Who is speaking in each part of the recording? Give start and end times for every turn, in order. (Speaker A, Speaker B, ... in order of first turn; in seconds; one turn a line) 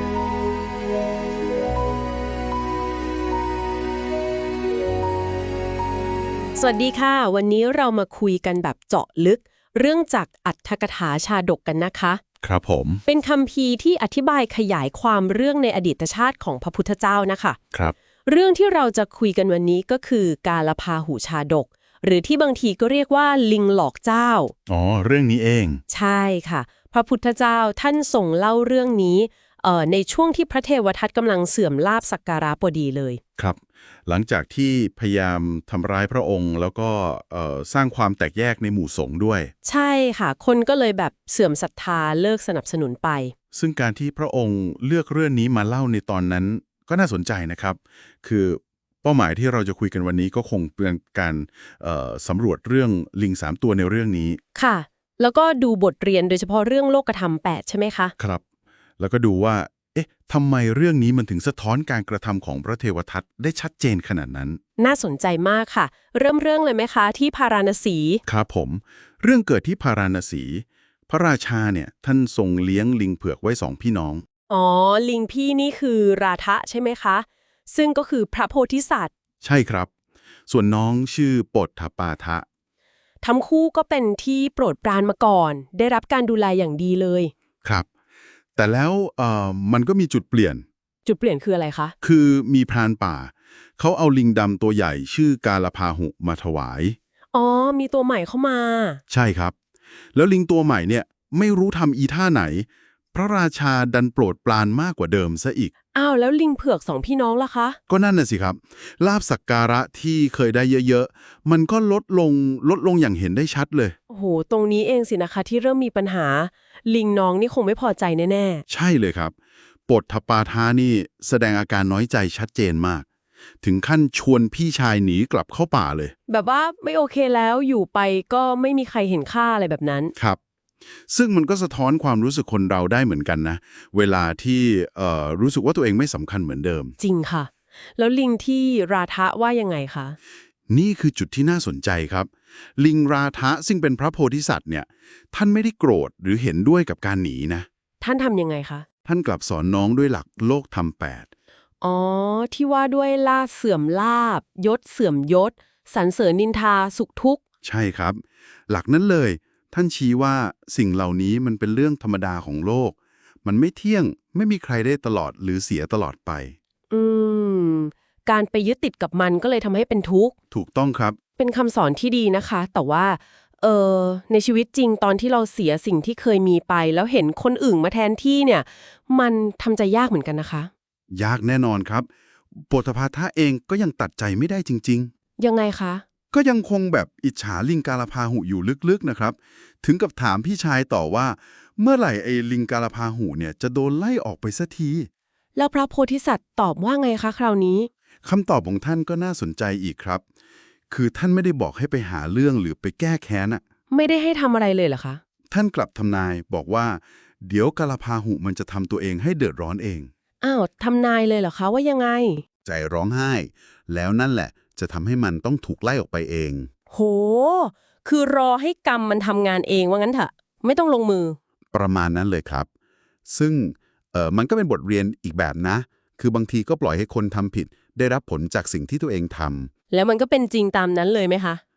Speaker A: 6.5-12.2
Speaker B: 12.4-13.0
Speaker A: 13.1-17.6
Speaker A: 18.2-24.5
Speaker B: 24.7-25.8
Speaker A: 25.9-33.2
Speaker B: 33.4-39.5
Speaker A: 39.6-43.3
Speaker B: 43.5-54.4
Speaker A: 54.5-58.1
Speaker B: 58.2-58.4
Speaker B: 59.0-64.6
Speaker A: 64.8-68.2
Speaker B: 68.2-74.2
Speaker A: 74.5-79.1
Speaker B: 79.4-79.9
Speaker B: 80.5-82.5
Speaker A: 83.2-87.3
Speaker B: 88.5-90.6
Speaker A: 91.0-91.9
Speaker B: 92.0-97.0
Speaker A: 97.3-99.0
Speaker B: 99.1-99.5
Speaker B: 100.1-105.7
Speaker A: 105.9-107.8
Speaker B: 107.9-114.0
Speaker A: 114.1-118.6
Speaker B: 118.7-119.3
Speaker B: 119.9-123.0
Speaker B: 123.6-126.1
Speaker A: 126.3-130.1
Speaker B: 131.1-136.9
Speaker A: 137.0-140.2
Speaker B: 140.7-147.7
Speaker A: 148.0-148.8
Speaker B: 149.0-151.3
Speaker A: 151.8-157.4
Speaker B: 157.6-166.5
Speaker A: 166.9-170.3
Speaker B: 170.5-171.2
Speaker A: 171.4-180.7
Speaker B: 181.1-185.1
Speaker A: 185.4-186.0
Speaker B: 186.3-195.1
Speaker A: 195.6-197.9
Speaker B: 198.2-200.2
Speaker B: 200.9-203.6
Speaker A: 203.9-205.2
Speaker B: 205.5-210.1
Speaker A: 210.4-212.4
Speaker B: 212.6-216.7
Speaker A: 216.9-221.4
Speaker B: 221.7-222.7
Speaker B: 223.3-229.7
Speaker A: 229.9-231.6